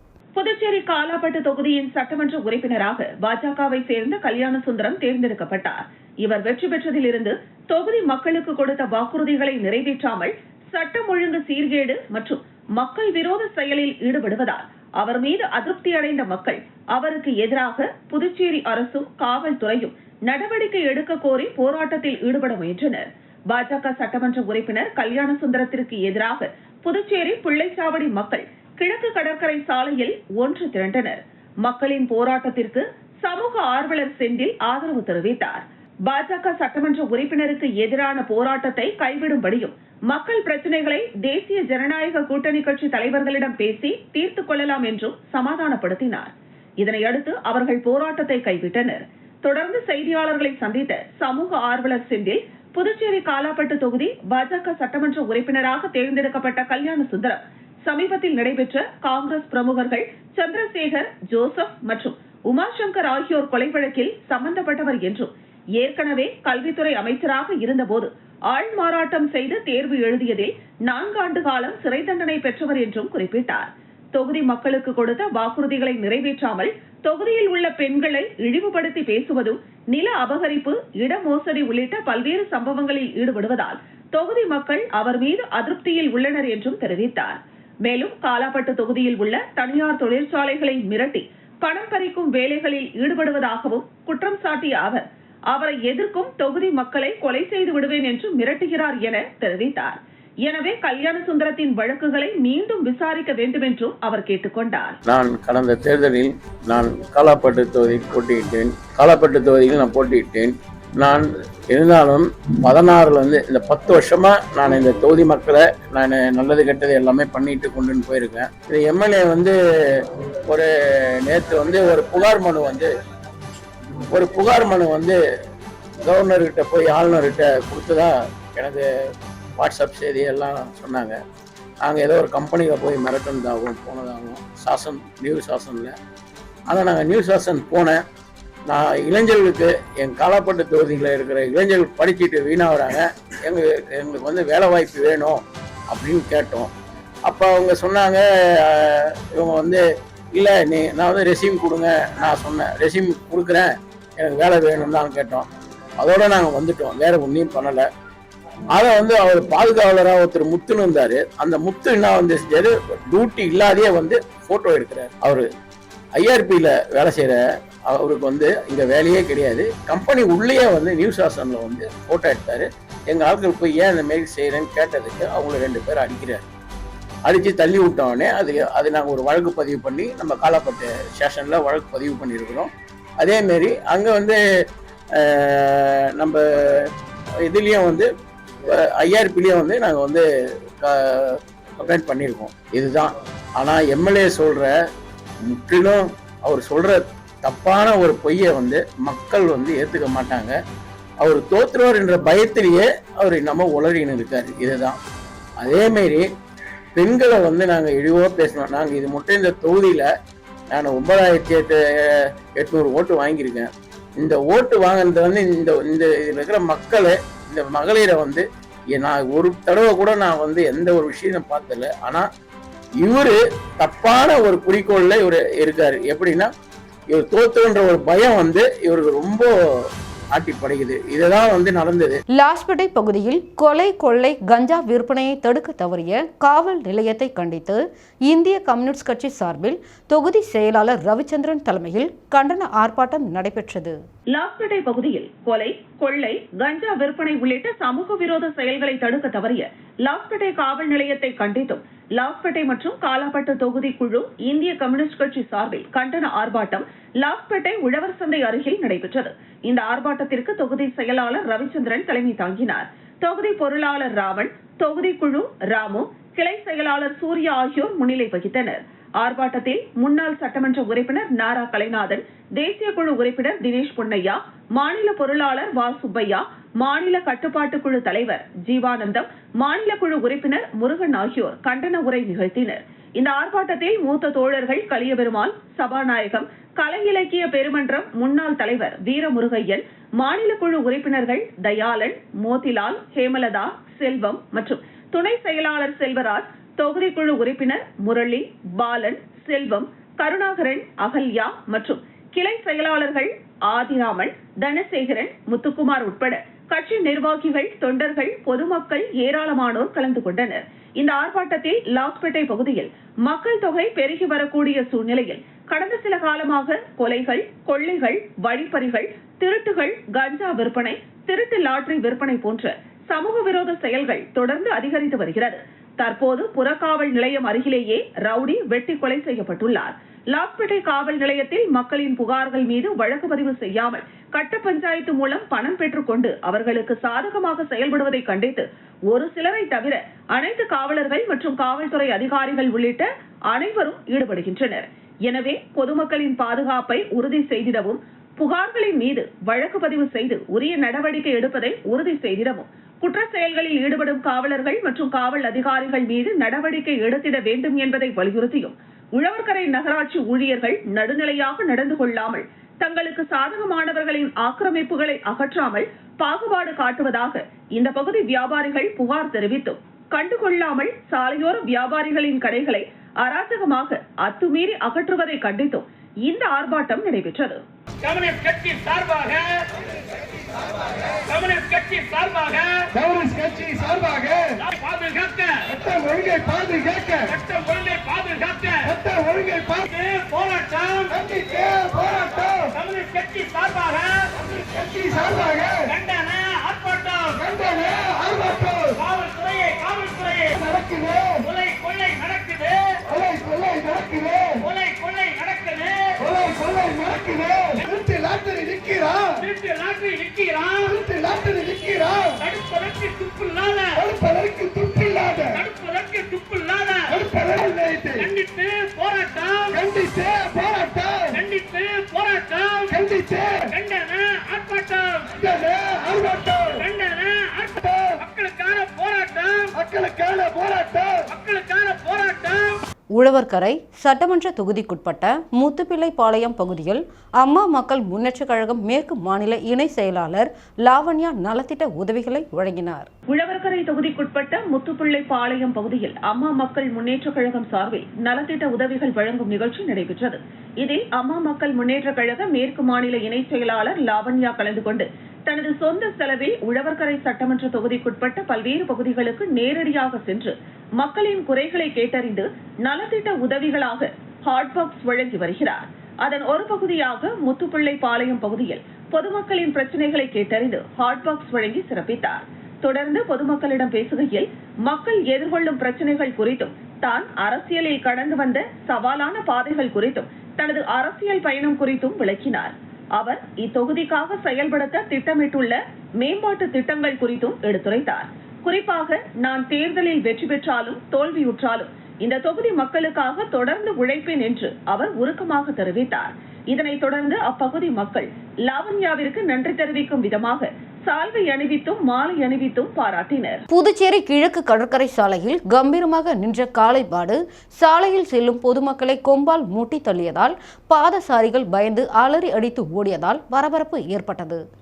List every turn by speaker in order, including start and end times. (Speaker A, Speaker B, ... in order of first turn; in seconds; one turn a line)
Speaker A: 0.3-105.0
Speaker B: 105.1-122.9
Speaker B: 124.1-125.2
Speaker B: 126.0-128.8
Speaker B: 129.6-131.2
Speaker B: 131.8-135.9
Speaker B: 136.7-138.0
Speaker B: 138.7-146.7
Speaker B: 147.3-149.8
Speaker B: 150.3-155.4
Speaker B: 156.0-157.9
Speaker B: 158.7-165.5
Speaker B: 166.2-167.4
Speaker B: 167.9-176.4
Speaker B: 177.3-184.4
Speaker B: 185.1-186.9
Speaker B: 187.4-188.1
Speaker B: 188.6-190.2
Speaker B: 190.8-194.7
Speaker B: 195.4-200.5
Speaker B: 201.2-205.0
Speaker B: 205.6-206.3
Speaker B: 206.9-210.1
Speaker B: 210.7-213.7
Speaker B: 214.2-222.3
Speaker B: 223.0-226.5
Speaker B: 227.1-229.5
Speaker B: 230.3-232.2
Speaker C: 232.3-244.0
Speaker A: 244.3-377.6
Speaker D: 378.0-379.5
Speaker D: 381.3-382.8
Speaker E: 382.9-384.5
Speaker D: 384.6-385.6
Speaker E: 385.7-387.3
Speaker D: 387.3-388.9
Speaker E: 388.8-389.9
Speaker D: 389.9-391.2
Speaker E: 391.1-392.7
Speaker D: 392.7-394.1
Speaker E: 394.4-395.9
Speaker D: 395.9-397.5
Speaker E: 397.4-398.9
Speaker D: 398.9-400.6
Speaker E: 400.6-401.4
Speaker D: 401.4-403.0
Speaker E: 403.1-404.6
Speaker D: 404.6-406.2
Speaker E: 406.2-409.4
Speaker D: 407.8-408.0
Speaker D: 409.4-411.0
Speaker E: 410.9-412.3
Speaker D: 412.4-414.0
Speaker E: 413.9-415.6
Speaker D: 415.5-417.2
Speaker E: 417.1-418.3
Speaker D: 418.2-419.8
Speaker E: 419.7-421.4
Speaker D: 421.3-423.0
Speaker E: 422.9-423.7
Speaker D: 423.7-425.3
Speaker E: 425.4-426.8
Speaker D: 426.8-429.7
Speaker E: 427.8-428.2
Speaker E: 429.7-431.2
Speaker D: 431.3-432.8
Speaker C: 433.1-443.1
Speaker A: 443.3-503.6
Speaker C: 503.7-514.6